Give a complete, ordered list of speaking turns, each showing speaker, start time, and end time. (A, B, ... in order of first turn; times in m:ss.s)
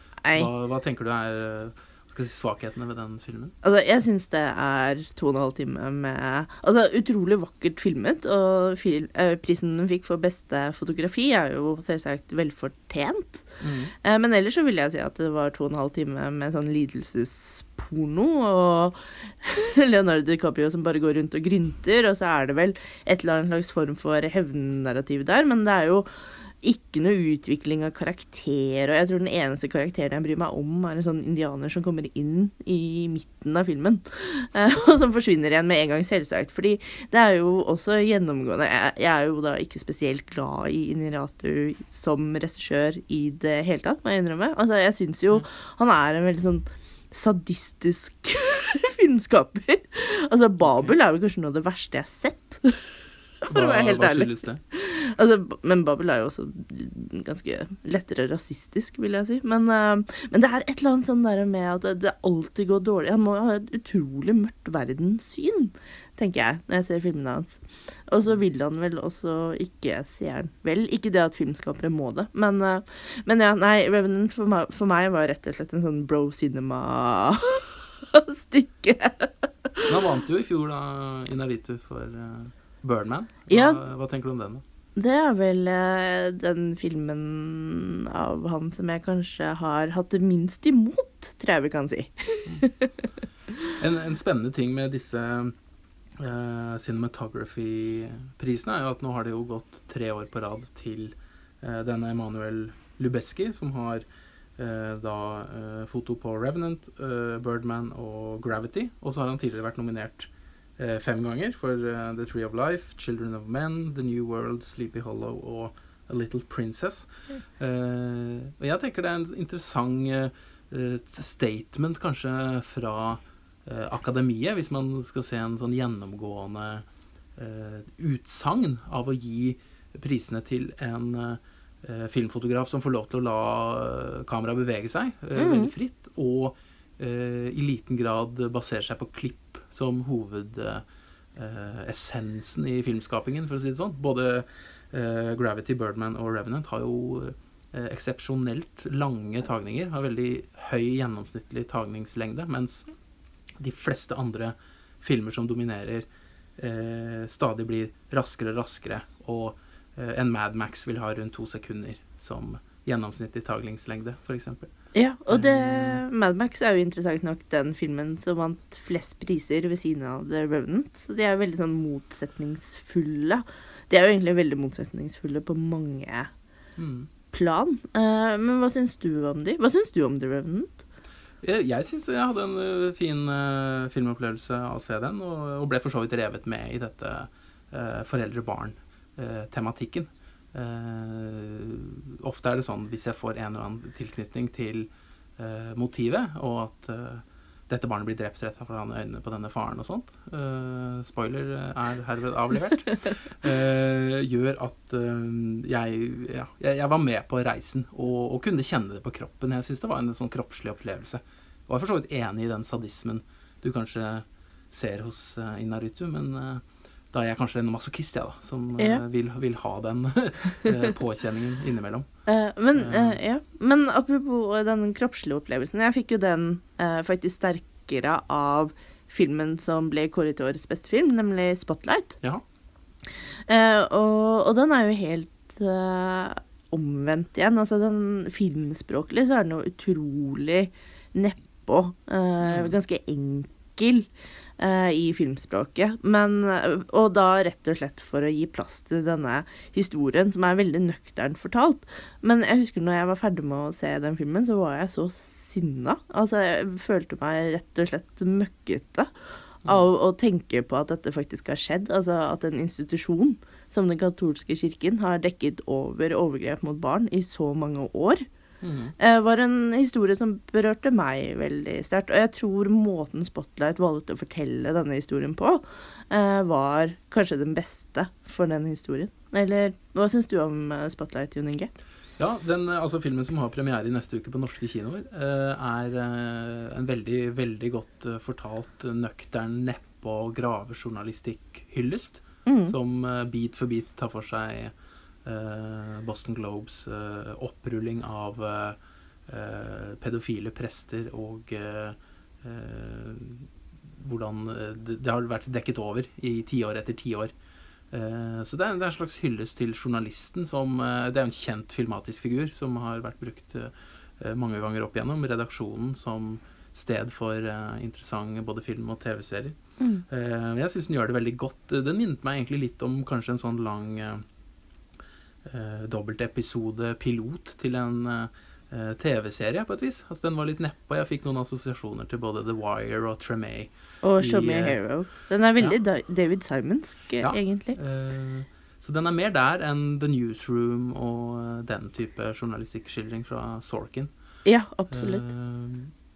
0:00.2-0:00.5 A
0:00.3-0:03.5 B
0:03.6-0:13.5 A
0:13.6-0:13.9 B
0:14.0-0:26.1 A
0:26.6-0:52.8 A
0:50.6-0:50.9 B
0:53.4-1:19.9 A
0:53.5-0:54.6 B
1:19.9-1:24.6 B
1:23.5-1:23.8 A
1:25.0-1:33.1 A
1:33.8-1:35.5 B
1:36.2-1:44.0 B
1:44.6-2:06.9 B
2:07.4-2:20.8 B
2:15.4-2:15.7 A
2:21.4-2:32.9 B
2:33.6-2:44.7 B
2:44.9-2:56.3 A
2:45.3-2:46.0 B
2:56.8-2:57.1 B
2:57.3-3:00.8 A
3:01.4-3:42.1 B
3:42.3-3:52.2 A
3:42.8-3:43.2 B
3:53.5-4:19.1 A
4:02.4-4:02.7 B
4:19.6-4:28.3 A
4:28.6-4:29.0 B
4:29.0-4:41.7 A
4:42.2-4:54.7 B
4:52.5-4:52.7 A
4:55.2-5:07.3 B
5:07.9-5:19.6 B
5:19.8-5:20.0 A
5:20.1-5:24.2 B
5:25.4-5:34.8 B
5:34.0-5:37.8 A
5:37.2-5:44.1 B
5:44.4-5:45.2 A
5:44.9-5:45.9 B